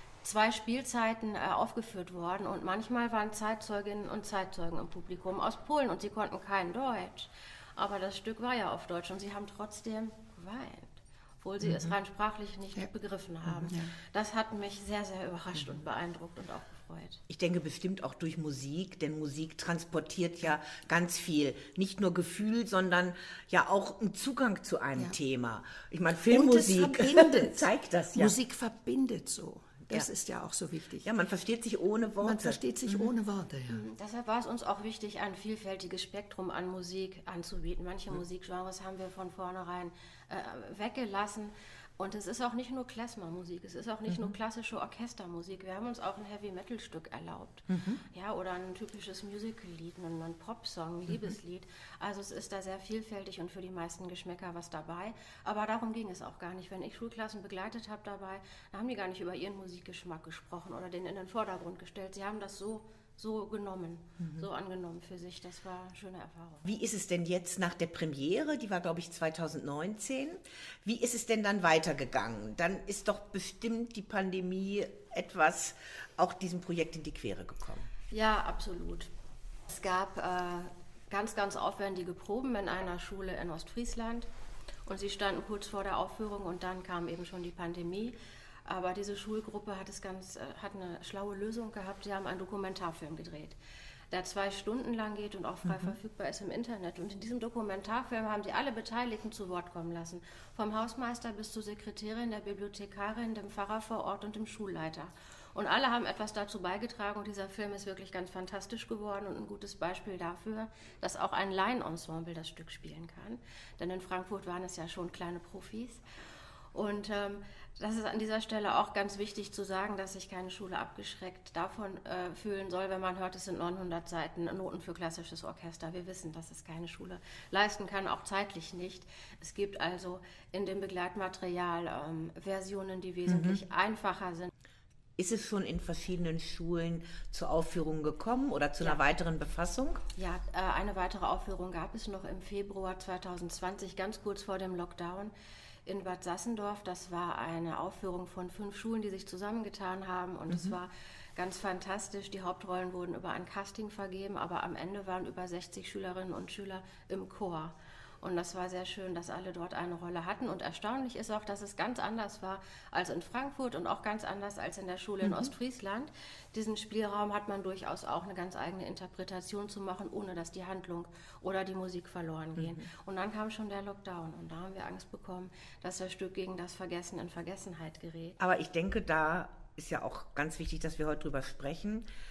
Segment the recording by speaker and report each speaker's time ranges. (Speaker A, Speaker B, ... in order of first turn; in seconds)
Speaker A: 0.2-17.2, 33.7-66.6, 78.1-79.1, 79.7-84.3, 84.8-88.1, 88.7-93.6, 94.1-116.0, 116.7-134.5, 140.2-145.3, 145.8-178.4
Speaker B: 13.5-13.9, 26.3-31.1, 32.2-33.8
Speaker C: 17.3-28.4, 31.0-33.1, 47.7-48.0, 66.6-77.9, 95.7-95.9, 133.3-133.6, 135.2-140.0, 165.2-165.5, 172.6-172.8, 178.4-182.1